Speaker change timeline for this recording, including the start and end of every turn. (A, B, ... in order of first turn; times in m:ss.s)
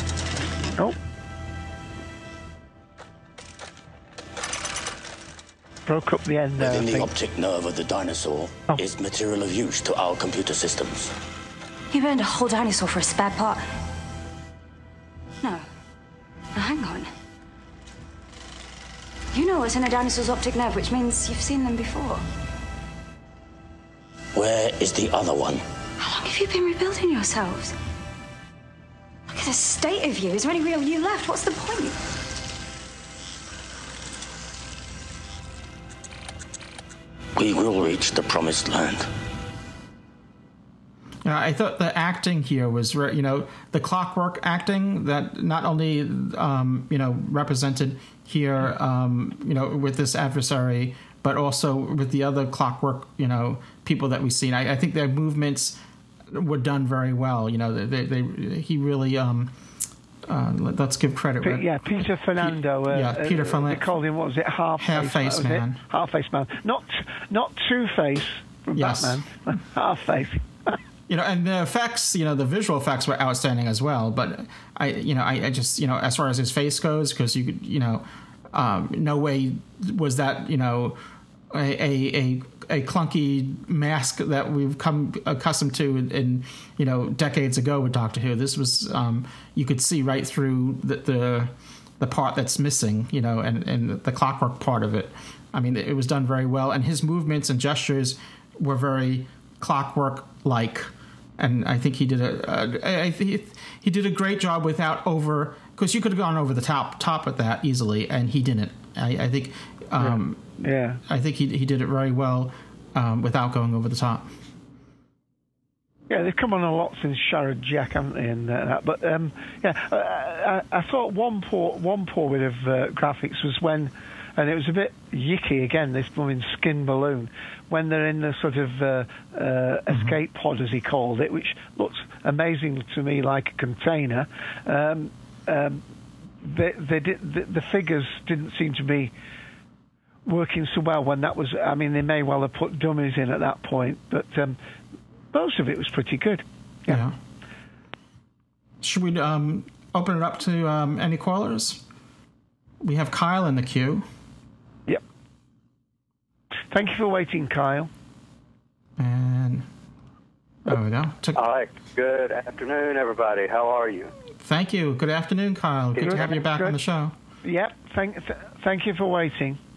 0:05.8-0:07.1 A
0:06.6-0:11.1 B
0:11.9-0:13.6 C
0:16.5-0:17.1 C
0:19.3-0:22.2 C
0:24.3-0:25.6 B
0:26.0-0:27.7 C
0:29.3-0:32.0 C
0:37.4-0:39.1 B
0:41.2-0:55.8 D
0:56.3-0:59.5 D
1:00.2-1:01.8 D
1:01.4-1:10.8 A
1:02.4-1:03.9 D
1:04.8-1:05.8 D
1:08.7-1:09.2 D
1:11.1-1:21.0 D
1:21.5-1:54.3 D
1:50.0-1:51.0 A
1:56.1-2:15.8 A
2:09.9-2:10.2 D
2:16.4-2:19.1 A
2:20.2-2:24.6 A
2:25.3-2:27.0 A
2:26.9-2:27.2 D
2:28.8-2:31.8 D
2:32.8-2:34.0 D
2:36.7-2:37.9 A
2:39.0-2:39.7 D
2:40.6-2:41.4 D
2:41.3-2:44.1 E
2:44.4-2:47.1 D
2:46.0-2:46.8 A
2:47.4-2:49.6 A